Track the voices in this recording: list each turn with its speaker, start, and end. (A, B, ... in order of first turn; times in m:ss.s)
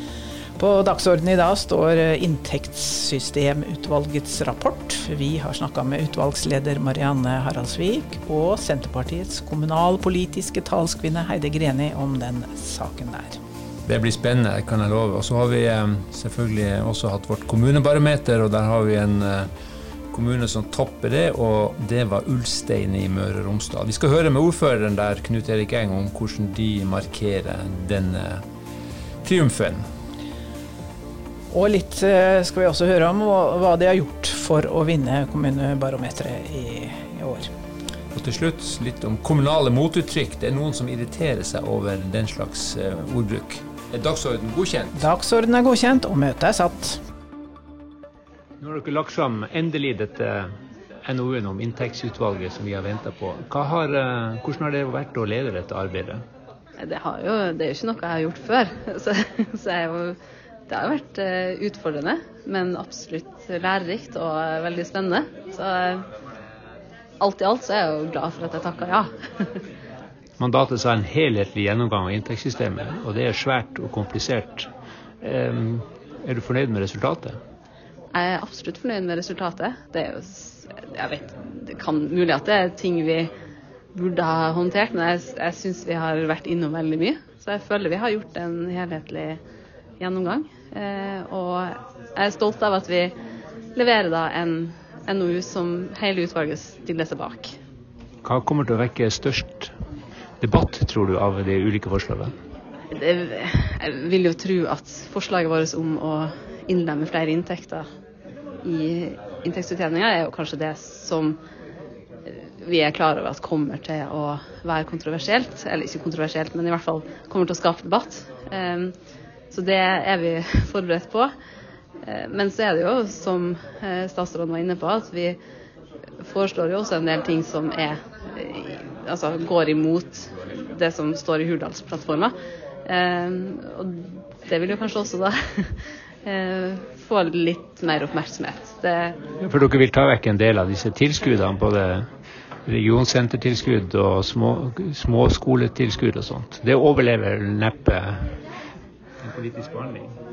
0:00.6-0:13.4 A
0:13.9-0:19.5 B
0:20.1-0:28.4 B
0:29.2-0:29.8 B
0:31.5-0:37.5 A
0:38.1-0:45.0 B
0:45.0-0:47.0 A
0:48.6-0:50.5 B
0:51.0-0:56.2 B
0:56.8-1:00.2 C
1:00.7-1:06.1 C
1:07.2-1:09.6 C
1:10.4-1:14.7 B
1:15.2-1:17.4 B
1:18.1-1:23.3 C
1:23.9-1:29.4 C
1:30.0-1:33.1 C
1:33.8-1:37.5 C
1:38.2-1:39.7 B
1:40.4-1:42.3 B
1:42.9-1:47.8 C
1:48.6-1:51.4 C
1:52.3-1:58.9 C
1:59.5-2:01.3 C
2:02.0-2:05.4 C
2:06.2-2:12.3 C
2:12.8-2:19.2 C
2:19.4-2:22.1 B
2:22.7-2:28.4 B
2:29.2-2:30.2 B